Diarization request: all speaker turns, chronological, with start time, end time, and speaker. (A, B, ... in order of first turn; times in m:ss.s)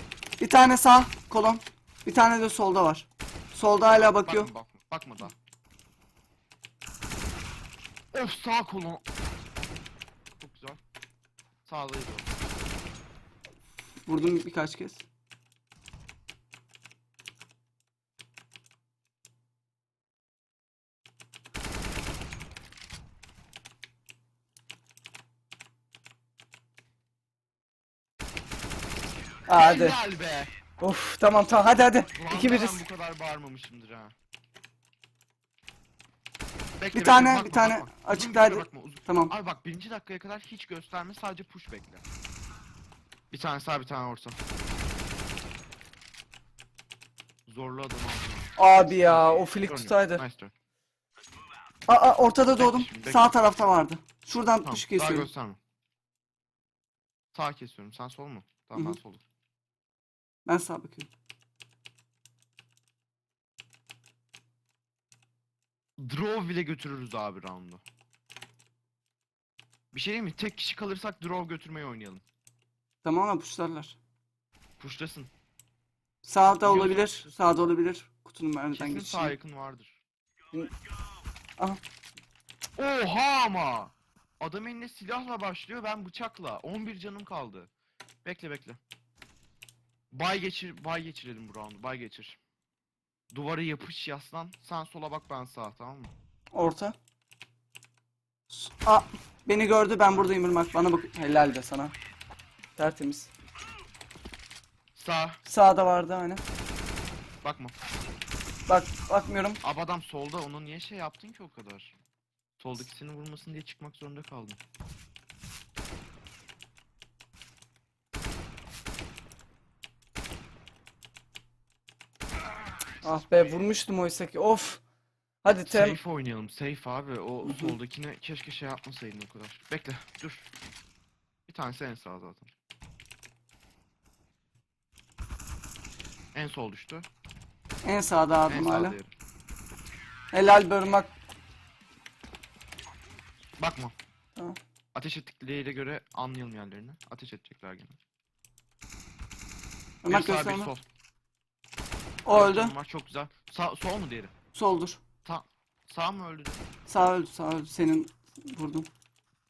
0:00.4-0:04.5 A
0:03.8-0:05.3 B
0:08.1-0:09.0 B
0:10.4-0:10.8 B
0:11.6-0:12.4 B
0:14.0-0:15.0 A
0:29.5-0:30.0 A
0:29.6-0:30.5 B
0:30.8-0:32.8 A
0:32.1-0:34.1 B
0:36.8-0:42.0 B
0:36.9-0:39.3 A
0:43.3-0:44.4 B
0:47.5-0:50.5 B
0:48.6-0:50.2 A
0:51.9-0:55.3 A
0:52.5-0:53.4 B
0:54.6-0:55.6 B
0:57.3-0:59.2 B
1:00.4-1:01.1 A
1:06.0-1:07.8 B
1:09.9-1:12.2 B
1:13.0-1:14.0 A
1:14.8-1:15.3 B
1:16.2-1:19.3 A
1:16.6-1:17.3 B
1:18.7-1:20.0 B
1:22.8-1:27.7 B
1:28.2-1:28.8 B
1:30.1-1:32.4 B
1:33.3-1:36.1 B
1:36.5-1:37.0 A
1:38.5-1:41.9 A
1:42.8-1:43.3 A
1:44.9-1:45.4 B
1:45.4-1:46.4 A
1:47.4-1:47.7 B
1:48.7-1:49.6 A
1:49.6-1:52.0 B
1:52.6-1:54.6 B
2:03.0-2:04.8 A
2:05.4-2:06.0 A
2:05.6-2:10.5 B
2:07.4-2:07.7 A
2:11.5-2:12.5 B
2:16.3-2:17.1 B
2:17.8-2:19.0 A
2:18.5-2:19.1 B
2:20.3-2:21.1 A
2:23.6-2:23.9 B
2:24.9-2:28.0 B
2:30.0-2:30.7 A
2:30.1-2:30.8 B
2:32.2-2:32.7 A
2:32.3-2:34.3 B
2:34.5-2:35.0 A
2:35.2-2:36.6 B
2:36.9-2:38.9 A